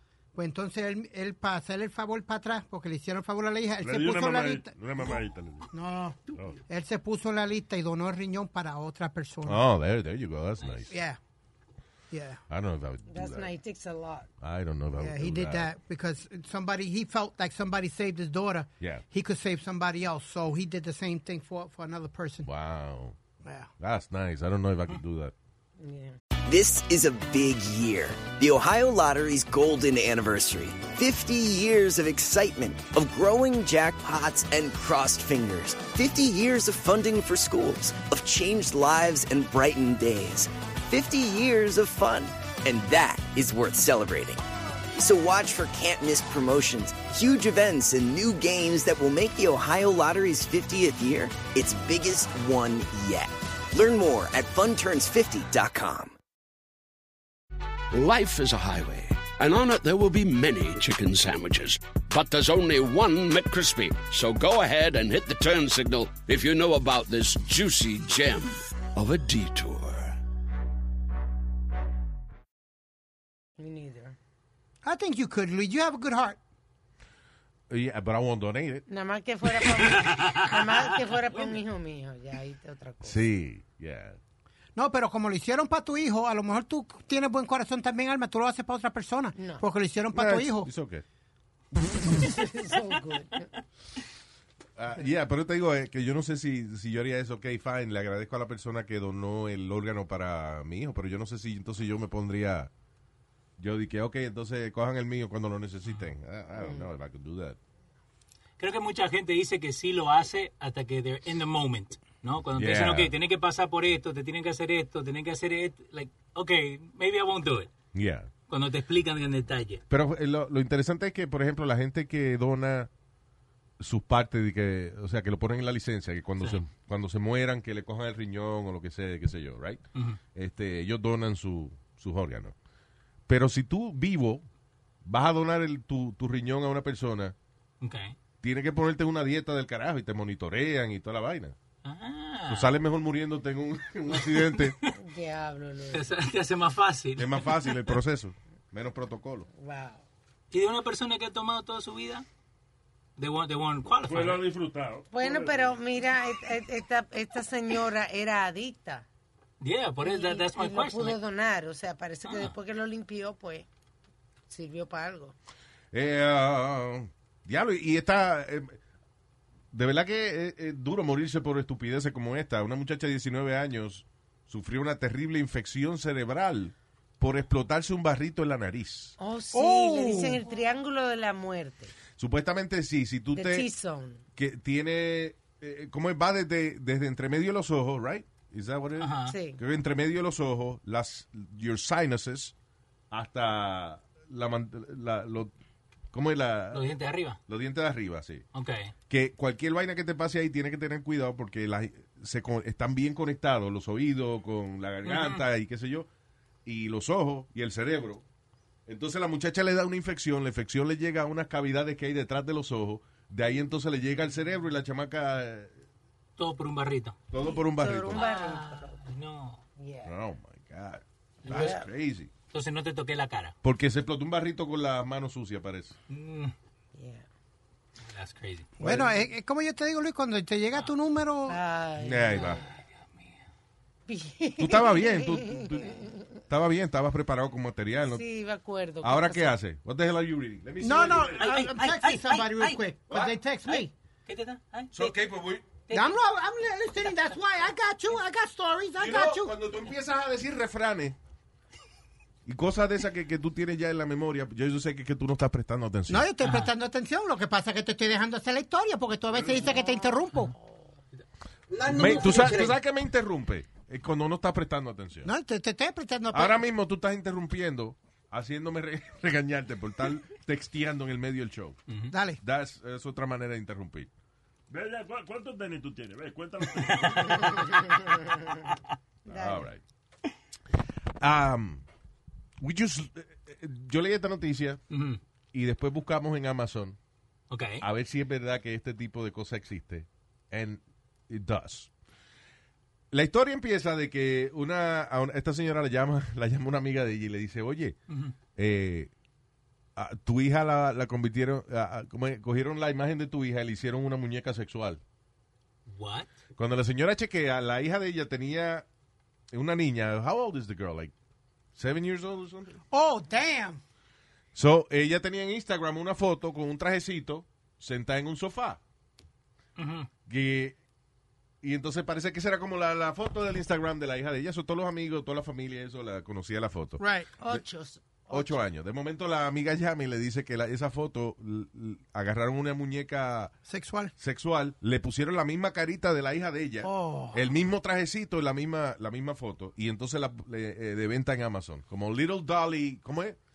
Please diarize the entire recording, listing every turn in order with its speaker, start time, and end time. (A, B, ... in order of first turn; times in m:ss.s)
0:00.3-0:05.0 A
0:03.8-0:05.7 B
0:05.7-0:09.6 A
0:06.3-0:06.6 B
0:09.4-0:10.9 C
0:10.9-0:11.2 A
0:12.1-0:12.4 A
0:12.5-0:13.5 C
0:13.1-0:14.3 D
0:14.4-0:15.7 C
0:15.0-0:22.5 A
0:22.4-0:23.2 C
0:23.4-0:23.7 A
0:23.8-0:25.3 C
0:25.8-0:26.2 D
0:26.5-0:44.4 E
0:44.9-0:56.2 E
0:57.9-1:10.2 F
1:13.6-1:14.2 D
1:14.8-1:16.4 A
1:17.7-1:18.8 C
1:18.9-1:23.2 D
1:19.9-1:20.7 G
1:21.3-1:21.6 G
1:23.0-1:24.2 C
1:24.8-1:30.7 A
1:29.3-1:29.6 D
1:30.1-1:31.0 C
1:32.0-1:33.5 D
1:34.8-1:42.7 C
1:43.6-1:47.6 C
1:46.6-1:46.8 D
1:48.6-1:57.7 G
1:52.5-1:53.1 C
1:57.9-1:58.3 C
1:58.5-1:59.8 G
1:59.9-2:02.9 C
2:03.8-2:09.8 C
2:10.3-2:12.5 C
2:13.3-2:14.4 C
2:15.0-2:17.3 C
2:17.8-2:18.2 G
2:18.4-2:21.5 C
2:21.8-2:22.7 G
2:22.5-2:24.8 C
2:24.1-2:24.9 G
2:24.9-2:26.1 D
2:25.9-2:28.0 G
2:27.2-2:29.5 C
2:29.5-2:30.0 D
2:30.5-2:32.2 G
2:33.2-2:34.4 G
2:34.0-2:35.8 B
2:35.1-2:39.1 D
2:39.6-2:41.2 G
2:40.0-2:43.7 D
2:42.2-2:42.5 G
2:44.5-2:45.3 D
2:45.9-2:48.8 C
2:49.7-2:59.1 C
2:59.2-3:01.9 D
2:59.5-3:00.4 A
3:02.2-3:03.7 C
3:03.3-3:04.2 D
3:04.4-3:12.5 C
3:09.0-3:09.3 G
3:09.3-3:09.6 D
3:13.1-3:15.5 C
3:16.1-3:16.8 C
3:16.7-3:17.4 G
3:17.5-3:18.4 C
3:18.5-3:18.9 G
3:19.1-3:26.1 C
3:25.0-3:25.4 G
3:26.6-3:28.2 C
3:28.9-3:35.8 C
3:36.4-3:37.2 G
3:37.3-3:38.2 C
3:37.3-3:39.0 D
3:38.1-3:39.6 G
3:39.8-3:40.1 D
3:40.0-3:42.3 C
3:41.4-3:41.9 D
3:42.5-3:43.5 G
3:43.6-3:46.0 C
3:46.1-3:46.5 G
3:46.9-3:47.2 D
3:48.0-3:48.7 G
3:48.8-3:51.6 A
3:48.8-3:49.2 C
3:51.5-3:52.6 D
3:52.0-3:52.6 C
3:54.1-3:56.3 D
3:54.6-3:58.2 C
3:58.1-3:59.5 D
3:59.0-4:01.5 C
4:00.8-4:03.9 A
4:01.3-4:02.8 G
4:03.1-4:03.4 C
4:03.6-4:05.1 G
4:04.9-4:05.7 C
4:05.9-4:06.2 G
4:05.9-4:09.5 A
4:07.0-4:07.3 G
4:09.0-4:11.2 C
4:12.4-4:16.3 C
4:16.1-4:20.5 A
4:16.4-4:16.7 G
4:19.6-4:20.8 D
4:21.7-4:22.7 A
4:21.9-4:25.3 C
4:25.2-4:26.6 A
4:26.3-4:31.8 C
4:31.9-4:32.1 G
4:32.1-4:32.4 A
4:32.4-4:34.1 C
4:34.7-4:37.9 B
4:39.2-4:39.8 C
4:39.3-4:39.7 D
4:41.2-4:41.8 C
4:42.6-4:44.8 C
4:44.9-4:45.2 G
4:45.5-4:47.0 C
4:47.5-4:47.8 G
4:47.8-4:51.9 C
4:53.1-4:58.0 C
4:58.6-4:59.1 C
5:00.0-5:05.0 C
5:05.9-5:06.3 G
5:06.6-5:08.8 C
5:09.5-5:11.1 C
5:11.8-5:12.8 C
5:12.9-5:13.8 A
5:14.5-5:18.8 C
5:19.8-5:20.1 G
5:20.3-5:20.8 C
5:21.6-5:27.6 C
5:27.0-5:27.3 A
5:27.4-5:28.6 D
5:28.3-5:33.5 C
5:33.7-5:34.1 A
5:34.2-5:43.4 C
5:36.8-5:37.4 A